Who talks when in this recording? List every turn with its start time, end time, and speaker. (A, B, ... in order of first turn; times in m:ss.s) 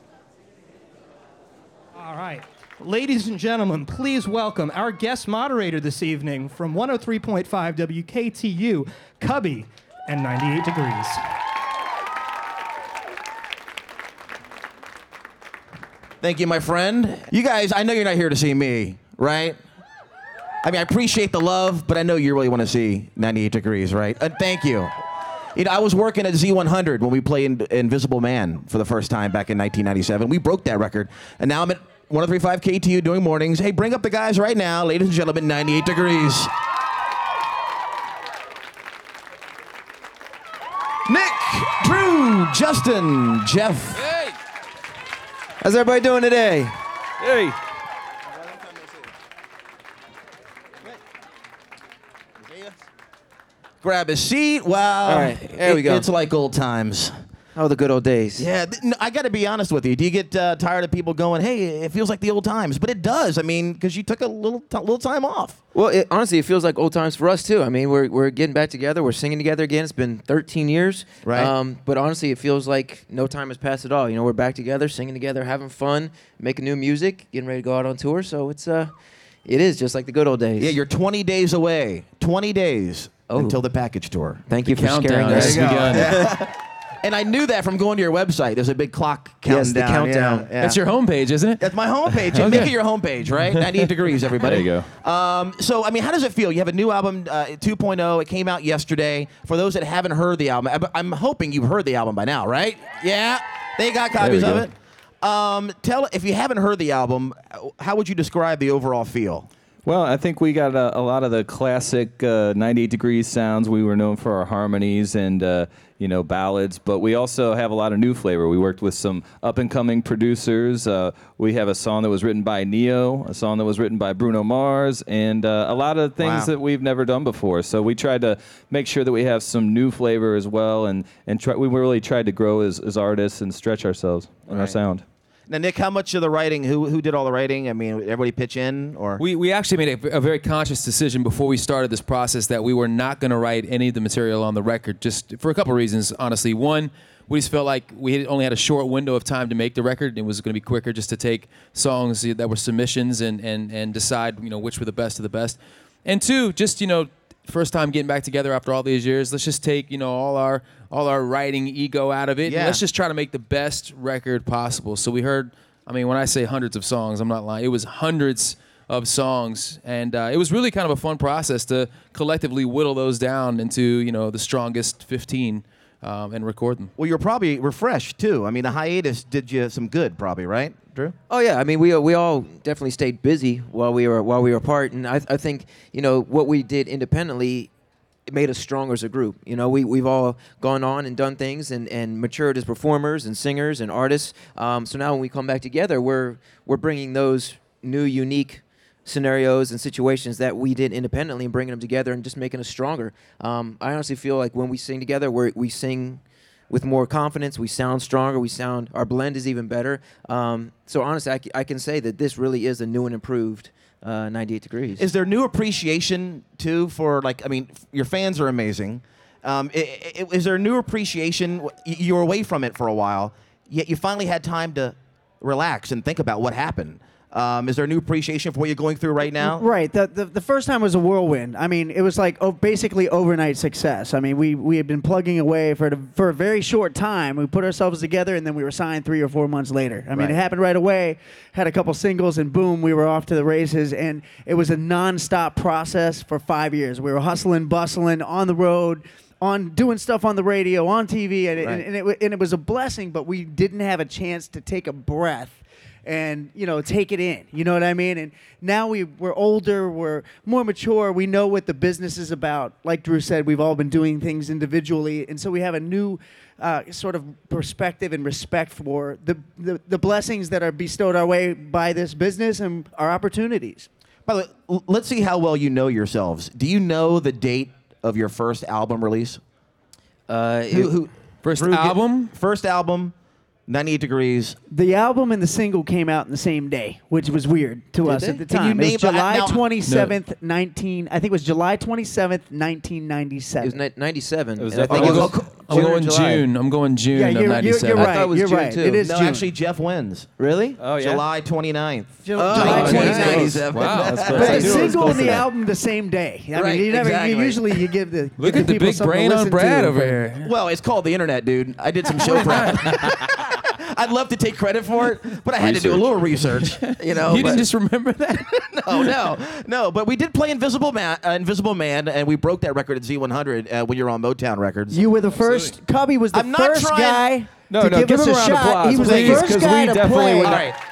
0:02.0-0:11.2 A
0:16.2-0:19.6 B
0:20.6-0:24.9 B
0:25.6-0:36.5 B
0:41.1-0:44.0 B
0:45.6-0:46.8 C
0:47.2-0:47.6 D
0:53.8-0:57.1 B
0:55.0-0:56.1 C
0:57.6-0:58.5 C
0:58.4-1:05.6 B
1:05.7-1:18.9 C
1:11.2-1:11.5 B
1:19.5-1:20.8 C
1:20.6-1:24.5 B
1:23.3-1:23.6 C
1:24.5-1:26.3 C
1:24.6-1:26.3 E
1:25.3-1:30.8 B
1:29.5-1:30.5 C
1:30.6-1:32.8 E
1:31.6-1:49.5 B
1:33.5-1:33.9 E
1:34.4-1:34.9 D
1:44.2-1:44.7 D
1:49.8-2:15.0 D
2:06.2-2:06.5 B
2:14.5-2:14.8 B
2:15.5-2:19.2 B
2:19.2-2:56.9 E
2:42.4-2:42.8 B
2:57.0-3:01.2 B
3:01.3-3:07.7 C
3:08.3-3:35.1 C
3:35.0-3:49.6 B
3:49.3-4:33.9 F
4:00.2-4:00.4 B
4:34.3-4:39.4 B
4:40.3-4:40.9 C
4:40.7-4:43.1 B
4:41.4-4:42.3 E
4:43.7-4:44.6 B
4:44.7-4:53.8 F
4:48.0-4:48.4 C
4:48.5-4:49.7 B
4:49.9-4:50.2 E
4:53.6-4:56.4 C
4:54.6-4:55.4 D
4:54.8-4:55.8 B
4:54.9-4:58.2 E
4:57.1-4:59.5 F
4:58.0-4:59.0 C
4:59.0-5:05.4 B
5:00.4-5:00.8 C
5:00.8-5:01.2 D
5:02.2-5:03.7 F
5:02.4-5:03.6 C
5:02.7-5:04.6 E
5:02.8-5:05.4 D
5:04.2-5:10.2 F
5:06.5-5:07.9 B
5:08.4-5:10.5 E
5:10.4-5:17.7 B
5:12.2-5:13.0 E
5:15.6-5:16.2 D
5:16.8-5:19.1 E
5:17.0-5:17.6 C
5:18.8-5:25.0 B
5:24.9-5:30.6 F
5:26.3-5:27.3 B
5:27.7-5:30.7 D
5:29.0-5:29.4 E
5:29.0-5:29.4 B
5:30.4-5:30.8 B